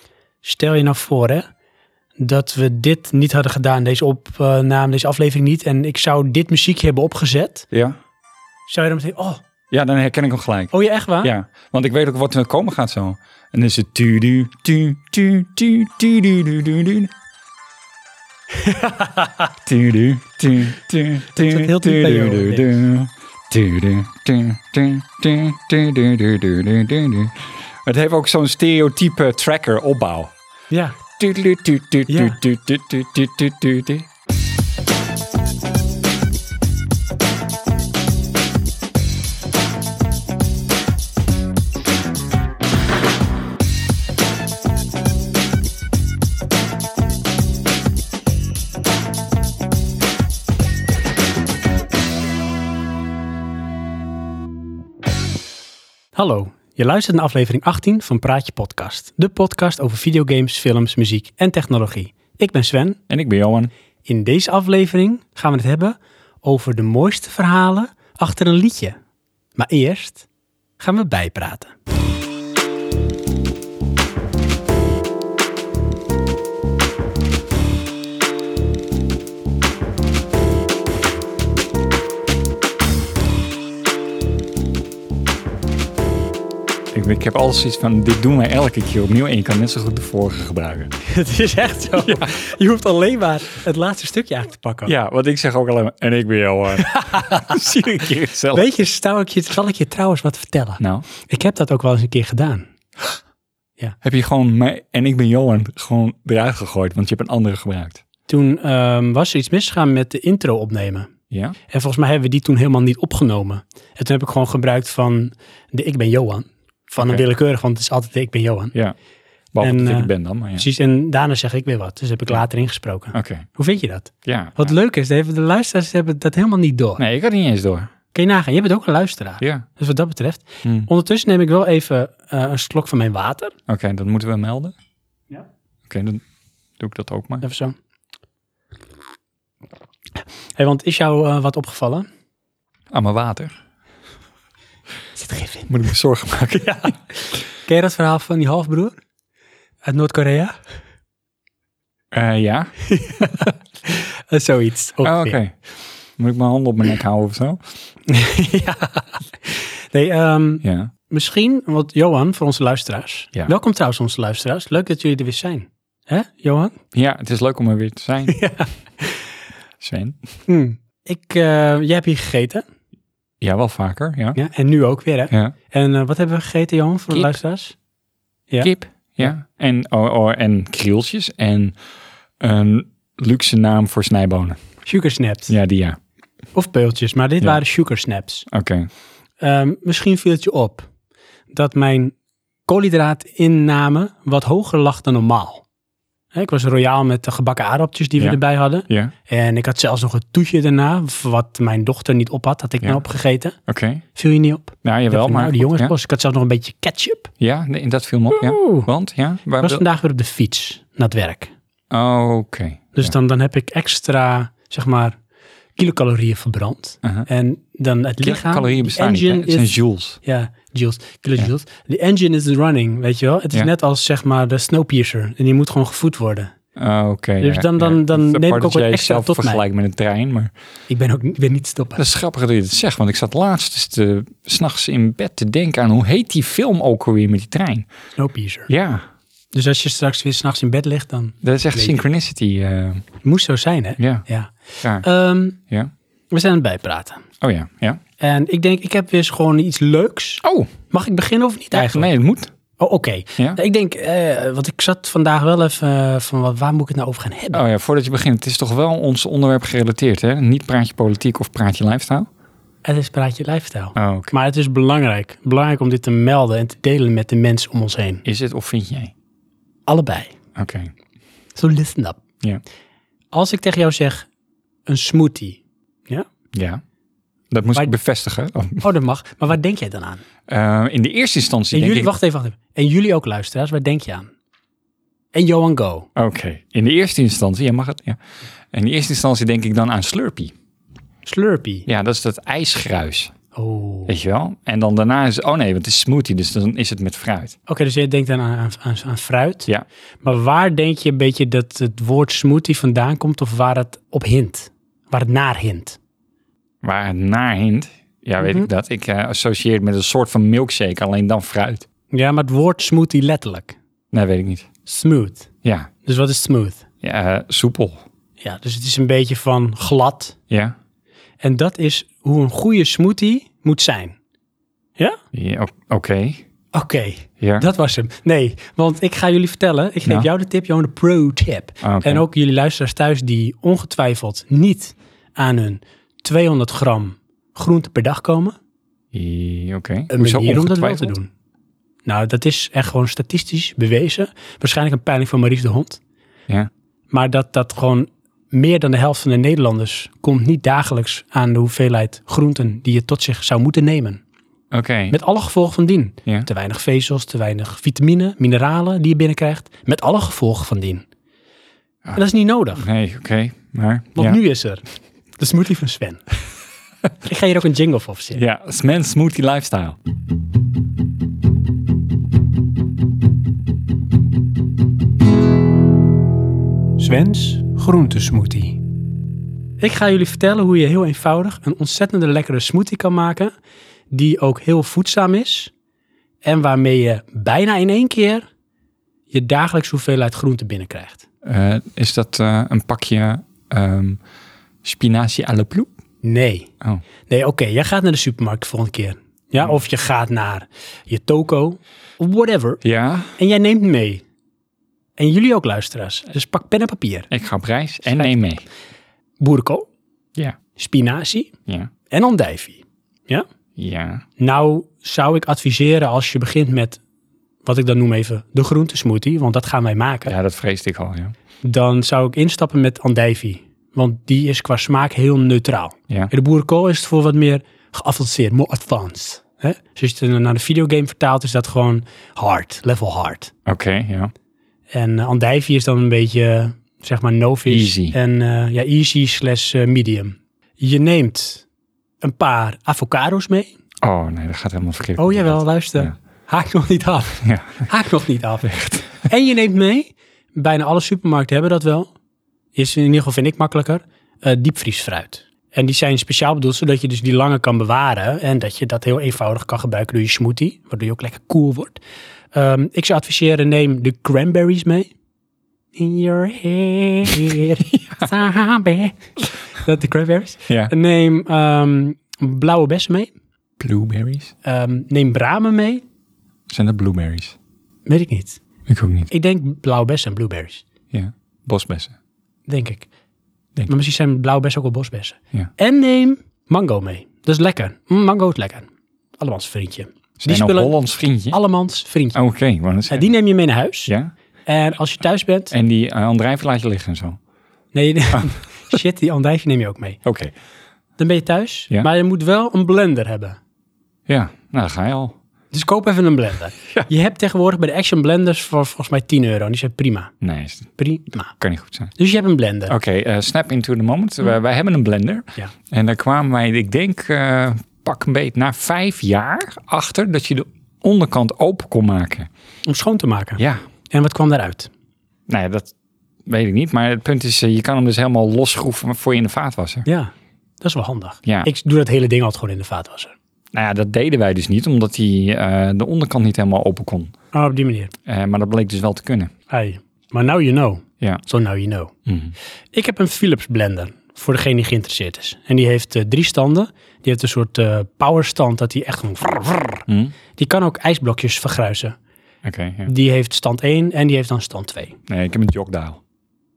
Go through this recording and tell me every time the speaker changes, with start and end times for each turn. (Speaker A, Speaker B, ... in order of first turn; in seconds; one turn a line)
Speaker A: 0.4-1.5
Speaker A: 2.2-7.7
Speaker A: 8.7-9.4
Speaker B: 9.7-17.1
Speaker A: 10.7-11.3
Speaker A: 18.6-19.5
Speaker B: 19.6-30.3
Speaker A: 21.3-22.8
Speaker A: 30.7-31.0
Speaker B: 31.2-34.1
Speaker A: 32.1-32.4
Speaker A: 56.1-63.0
Speaker B: 63.1-63.7
Speaker A: 64.0-69.0
Speaker A: 69.6-70.2
Speaker A: 70.8-71.7
Speaker B: 86.9-90.9
Speaker A: 91.0-94.9
Speaker B: 92.0-92.4
Speaker B: 94.9-98.7
Speaker A: 96.8-97.6
Speaker A: 98.5-102.7
Speaker B: 100.8-101.1
Speaker B: 104.0-108.0
Speaker A: 108.3-111.1
Speaker B: 111.3-111.6
Speaker A: 111.7-118.8
Speaker B: 117.0-117.2
Speaker B: 119.5-120.7
Speaker A: 119.6-127.0
Speaker B: 123.1-123.5
Speaker B: 124.2-124.7
Speaker B: 127.0-127.9
Speaker A: 128.1-133.5
Speaker B: 129.4-129.7
Speaker B: 130.6-130.9
Speaker B: 133.7-134.8
Speaker B: 135.9-136.2
Speaker B: 136.8-137.5
Speaker A: 137.4-137.8
Speaker A: 140.6-142.1
Speaker B: 142.9-143.6
Speaker A: 145.2-145.7
Speaker B: 145.7-146.9
Speaker A: 147.7-148.9
Speaker A: 149.8-150.6
Speaker B: 152.1-152.7
Speaker A: 152.8-155.4
Speaker B: 155.0-155.6
Speaker B: 156.2-157.6
Speaker A: 158.1-166.8
Speaker B: 160.6-160.9
Speaker B: 166.9-168.4
Speaker A: 168.3-169.2
Speaker B: 169.8-170.2
Speaker A: 170.5-172.7
Speaker B: 173.4-174.4
Speaker A: 174.3-177.8
Speaker A: 178.5-179.4
Speaker B: 178.6-181.8
Speaker B: 182.4-184.6
Speaker A: 184.9-185.5
Speaker B: 185.5-186.0
Speaker A: 186.5-188.5
Speaker B: 188.5-188.9
Speaker A: 189.4-190.9
Speaker A: 191.5-192.1
Speaker A: 192.7-195.6
Speaker A: 196.3-203.6
Speaker B: 198.2-199.1
Speaker B: 203.7-204.0
Speaker A: 204.2-207.3
Speaker B: 204.8-205.9
Speaker B: 207.4-209.8
Speaker A: 208.3-208.9
Speaker A: 209.6-211.5
Speaker B: 211.9-213.1
Speaker A: 212.9-215.2
Speaker A: 215.8-219.7
Speaker B: 218.2-220.2
Speaker A: 220.2-226.5
Speaker B: 226.8-230.5
Speaker A: 227.4-229.6
Speaker A: 230.9-232.0
Speaker B: 232.0-237.9
Speaker A: 238.2-238.7
Speaker B: 238.7-239.1
Speaker A: 239.5-242.0
Speaker B: 241.4-243.1
Speaker A: 243.2-245.6
Speaker B: 244.0-244.2
Speaker A: 246.3-247.2
Speaker B: 247.4-248.0
Speaker A: 248.2-252.1
Speaker B: 250.4-250.7
Speaker B: 251.7-252.5
Speaker A: 252.8-257.6
Speaker B: 257.5-262.3
Speaker A: 262.8-268.2
Speaker B: 264.0-264.3
Speaker B: 268.2-269.1
Speaker A: 269.9-270.3
Speaker B: 270.6-270.9
Speaker A: 271.6-272.2
Speaker A: 273.3-274.3
Speaker A: 274.9-276.3
Speaker B: 276.5-276.8
Speaker B: 277.5-278.9
Speaker A: 278.8-280.2
Speaker B: 280.5-282.1
Speaker A: 281.7-284.3
Speaker A: 285.3-286.1
Speaker B: 286.2-288.2
Speaker B: 288.7-290.5
Speaker A: 291.2-291.9
Speaker B: 291.9-293.3
Speaker A: 293.5-294.1
Speaker B: 294.1-297.6
Speaker A: 297.7-299.7
Speaker A: 300.2-306.0
Speaker B: 306.8-311.9
Speaker A: 308.4-308.7
Speaker A: 312.1-313.8
Speaker B: 314.1-314.7
Speaker A: 314.9-315.5
Speaker B: 315.6-315.9
Speaker A: 316.0-316.8
Speaker B: 317.0-318.0
Speaker A: 318.4-320.4
Speaker B: 320.5-320.8
Speaker A: 321.4-324.1
Speaker B: 325.3-326.4
Speaker A: 326.7-338.6
Speaker B: 327.4-327.7
Speaker B: 331.8-332.2
Speaker B: 339.1-341.1
Speaker A: 340.1-341.3
Speaker A: 342.1-346.0
Speaker A: 347.1-354.2
Speaker B: 354.7-355.2
Speaker A: 355.1-361.1
Speaker A: 362.1-362.9
Speaker B: 362.8-364.4
Speaker A: 364.1-364.8
Speaker A: 365.4-366.2
Speaker A: 367.2-368.4
Speaker B: 368.3-370.0
Speaker A: 377.0-378.8
Speaker A: 379.8-383.5
Speaker A: 384.1-385.7
Speaker A: 386.4-388.5
Speaker A: 389.3-391.2
Speaker B: 391.4-394.2
Speaker B: 394.8-395.9
Speaker A: 396.2-396.7
Speaker A: 397.3-402.8
Speaker B: 402.8-403.4
Speaker A: 403.4-404.2
Speaker A: 405.2-407.3
Speaker B: 407.3-408.6
Speaker A: 409.4-409.9
Speaker A: 410.8-411.5
Speaker A: 412.1-413.5
Speaker B: 413.8-414.2
Speaker A: 414.4-417.0
Speaker A: 417.6-420.4
Speaker B: 420.3-421.3
Speaker A: 421.6-433.5
Speaker B: 433.7-434.3
Speaker A: 434.9-441.6
Speaker B: 437.7-438.2
Speaker A: 442.2-443.7
Speaker B: 444.0-446.1
Speaker A: 445.2-448.7
Speaker B: 447.4-447.9
Speaker B: 448.6-449.2
Speaker A: 449.2-452.1
Speaker A: 452.8-462.0
Speaker A: 462.5-465.1
Speaker A: 465.9-469.2
Speaker B: 467.9-468.2
Speaker A: 469.8-473.3
Speaker B: 473.8-474.5
Speaker A: 474.6-476.0
Speaker B: 476.7-477.6
Speaker A: 478.1-478.6
Speaker B: 478.9-479.3
Speaker A: 479.3-480.8
Speaker B: 481.1-482.1
Speaker A: 482.7-483.1
Speaker A: 483.9-488.9
Speaker A: 489.4-490.9
Speaker B: 490.4-491.6
Speaker A: 491.5-492.4
Speaker B: 492.3-493.3
Speaker A: 493.1-494.1
Speaker B: 494.1-494.3
Speaker A: 494.7-495.7
Speaker B: 495.7-497.4
Speaker A: 497.9-500.2
Speaker B: 500.2-500.5
Speaker A: 501.2-503.6
Speaker B: 504.3-505.4
Speaker A: 505.7-510.3
Speaker B: 510.4-510.9
Speaker A: 511.0-511.5
Speaker B: 511.6-512.1
Speaker A: 512.2-513.0
Speaker B: 512.9-522.5
Speaker A: 522.9-524.9
Speaker B: 523.6-523.8
Speaker B: 525.5-525.9
Speaker B: 526.5-530.1
Speaker A: 530.1-533.3
Speaker B: 533.7-537.3
Speaker A: 537.5-538.1
Speaker B: 538.3-539.5
Speaker A: 539.7-542.1
Speaker B: 542.3-542.5
Speaker A: 542.9-550.0
Speaker B: 550.1-550.4
Speaker A: 550.6-552.2
Speaker B: 552.6-553.1
Speaker A: 553.0-555.2
Speaker B: 555.3-556.2